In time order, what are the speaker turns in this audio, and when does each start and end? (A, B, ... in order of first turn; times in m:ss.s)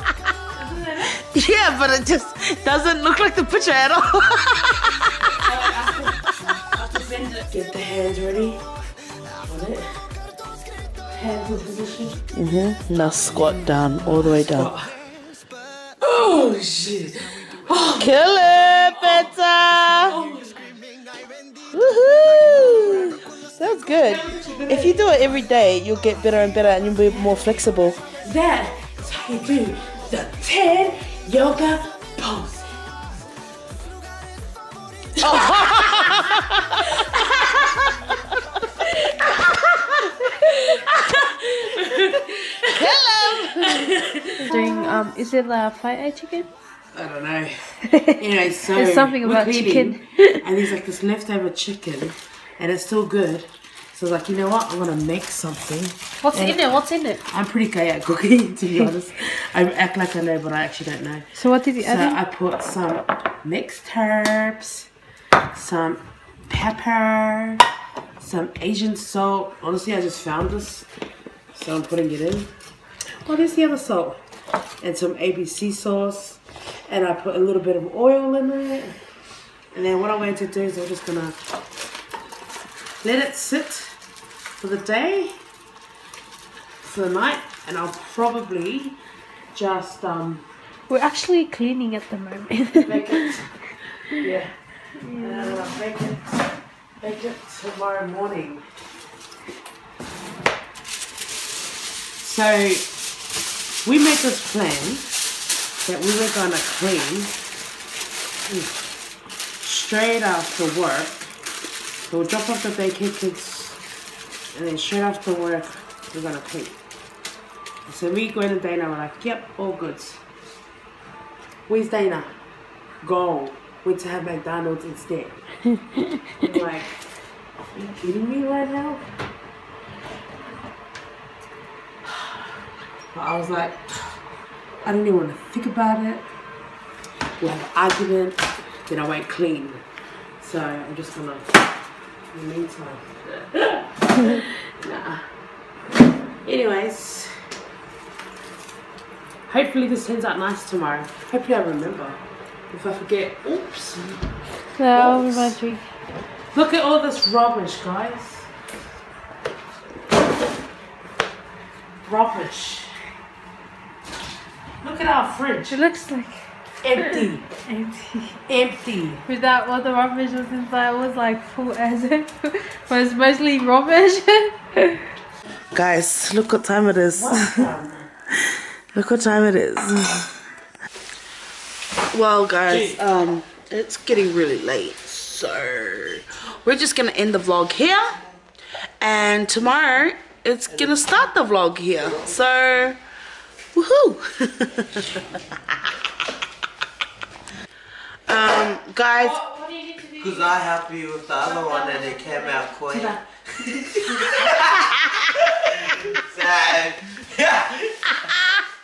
0:00.5-0:01.2 A
0:01.2-0:05.3 B
0:05.4-0:08.6 A
0:09.4-0:09.9 A
0:11.1-0:12.2 A
0:12.3-0:14.7 B
0:13.3-0:14.9 A
0:16.0-0:18.2 A
0:18.0-0:20.2 B
0:19.9-0:20.8 A
0:21.7-0:28.0 B
0:24.0-0:25.1 A
0:27.1-0:27.5 A
0:28.2-0:33.3 A
0:35.2-0:38.2 B
0:35.4-0:36.2 A
0:36.9-0:37.6 A
0:38.8-0:44.7 A
0:42.7-0:44.0 B
0:44.4-0:46.5 C
0:46.9-1:04.9 A
0:47.9-0:48.1 C
0:48.7-0:50.4 C
0:56.2-0:57.2 C
1:01.4-1:02.2 C
1:05.5-1:07.6 A
1:08.2-1:10.9 A
1:11.5-1:12.5 A
1:13.2-1:14.2 A
1:14.8-1:19.0 A
1:19.7-1:21.4 A
1:23.0-1:24.0 A
1:24.6-1:25.4 A
1:26.8-1:29.0 A
1:29.5-1:30.4 A
1:30.9-1:33.4 C
1:32.8-1:33.5 A
1:34.1-1:36.4 A
1:35.0-1:35.8 C
1:37.0-1:38.7 A
1:42.2-1:42.9 A
1:43.8-1:45.2 A
1:45.8-1:47.4 A
1:48.5-1:48.8 A
1:49.6-1:51.2 A
1:52.1-1:53.8 A
1:54.5-1:56.8 A
1:57.9-2:00.2 A
2:01.7-2:02.4 A
2:03.0-2:05.4 A
2:06.4-2:06.9 A
2:07.7-2:09.0 A
2:12.1-2:12.4 A
2:13.1-2:14.2 A
2:14.8-2:16.3 A
2:17.4-2:19.8 A
2:20.4-2:21.6 A
2:22.3-2:25.3 A
2:26.4-2:27.3 A
2:29.5-2:32.2 A
2:32.7-2:34.3 A
2:34.8-2:35.9 C
2:34.9-2:35.6 A
2:36.5-2:38.5 A
2:42.0-2:43.0 A
2:44.8-2:45.8 A
2:45.7-2:48.4 C
2:46.8-2:47.5 A
2:48.5-2:49.2 A
2:49.3-2:55.0 C
2:55.7-2:57.7 B
2:57.1-2:58.1 A
2:58.5-3:00.3 B
3:02.1-3:08.2 B
3:09.0-3:13.0 B
3:10.7-3:11.1 D
3:13.7-3:15.2 B
3:18.3-3:19.4 B
3:19.4-3:20.4 C
3:20.2-3:28.2 D
3:22.9-3:23.2 A
3:24.3-3:25.8 B
3:28.3-3:28.6 B